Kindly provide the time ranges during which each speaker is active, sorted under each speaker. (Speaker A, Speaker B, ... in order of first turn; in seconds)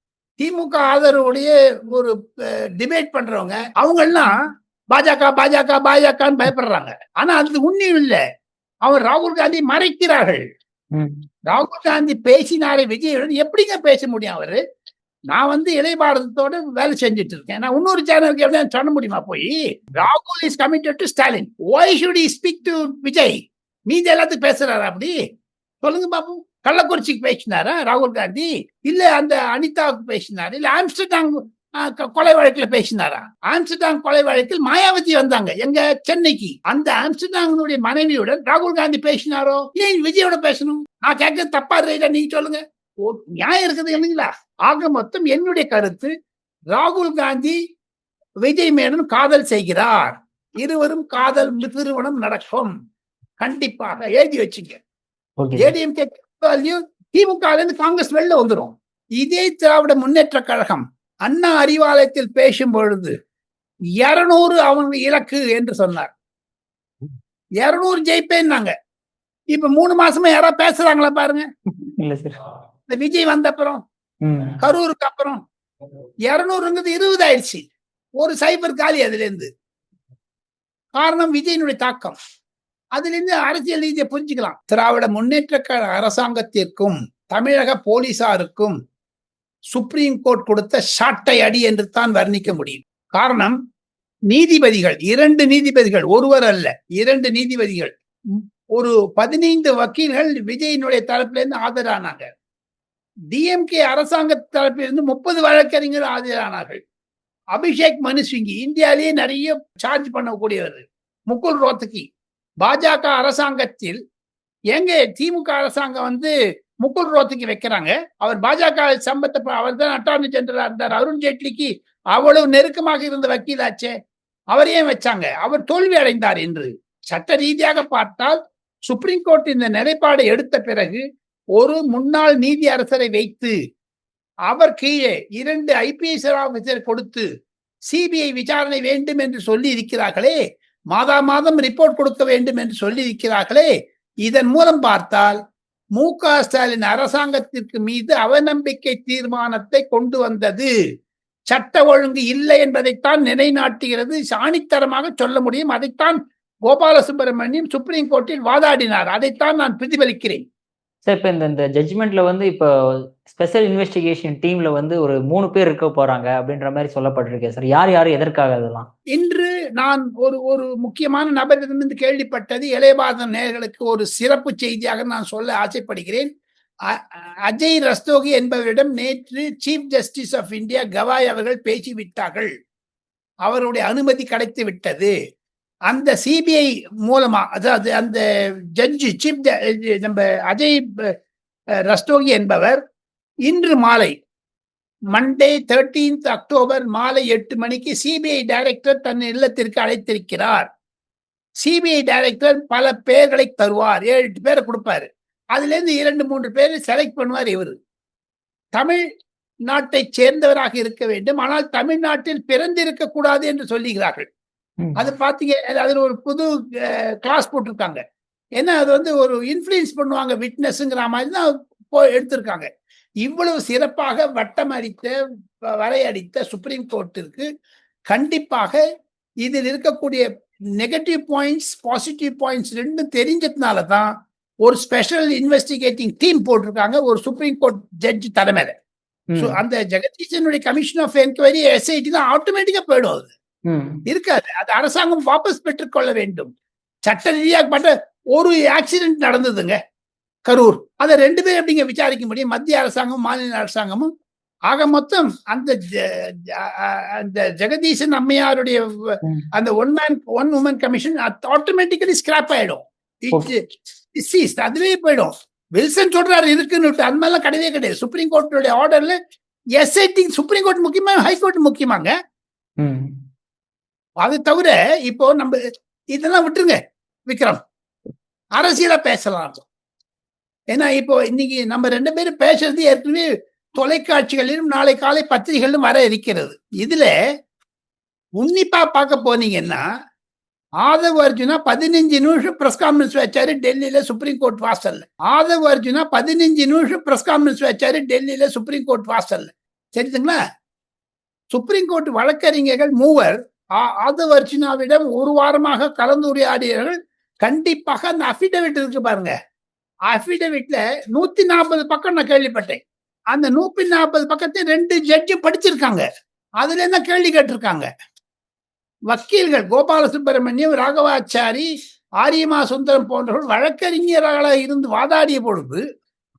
Speaker A: 0.4-2.1, 2.8-4.3, 4.9-8.2, 8.8-10.4, 11.5-14.6, 15.3-23.4, 23.9-25.1, 25.8-46.1, 46.7-47.5, 48.5-52.7, 53.4-54.8, 55.6-63.1, 64.0-66.1, 67.6-68.7, 69.5-71.5, 72.9-73.8, 74.6-75.4, 76.3-77.7, 78.2-79.5, 81.0-82.2, 83.0-88.8, 89.7-93.5, 94.3-102.3, 103.3-106.8, 107.5-112.1, 112.6-114.0, 114.7-116.3, 116.8-123.9, 124.5-131.0, 131.6-133.5, 134.5-137.2, 137.9-140.4, 140.9-143.7, 144.2-145.4, 146.0-150.7, 151.5-160.4, 169.1-176.3, 176.9-182.5, 183.4-185.1, 185.9-188.2, 188.8-191.1, 191.9-192.8, 193.5-194.1, 195.1-200.7, 201.6-207.7, 209.7-214.3, 215.0-218.0, 218.6-222.7, 223.2-225.1, 225.7-227.4, 228.1-228.8, 229.4-230.2, 230.8-234.1, 234.6-238.7, 239.4-243.3, 244.1-246.5, 247.1-249.8, 250.5-254.1, 254.7-263.6, 264.1-269.1, 269.8-272.1, 274.2-275.5, 276.1-277.6, 278.6-279.6, 280.7-287.1, 288.4-289.8, 290.8-300.4, 301.5-309.3, 310.1-312.8, 313.3-316.0, 316.6-317.9, 319.1-321.7, 322.2-325.8
Speaker B: 10.9-11.2, 55.4-55.7, 72.0-72.4, 74.2-74.6, 161.1-168.9, 239.3-239.6, 243.7-244.0, 272.8-273.1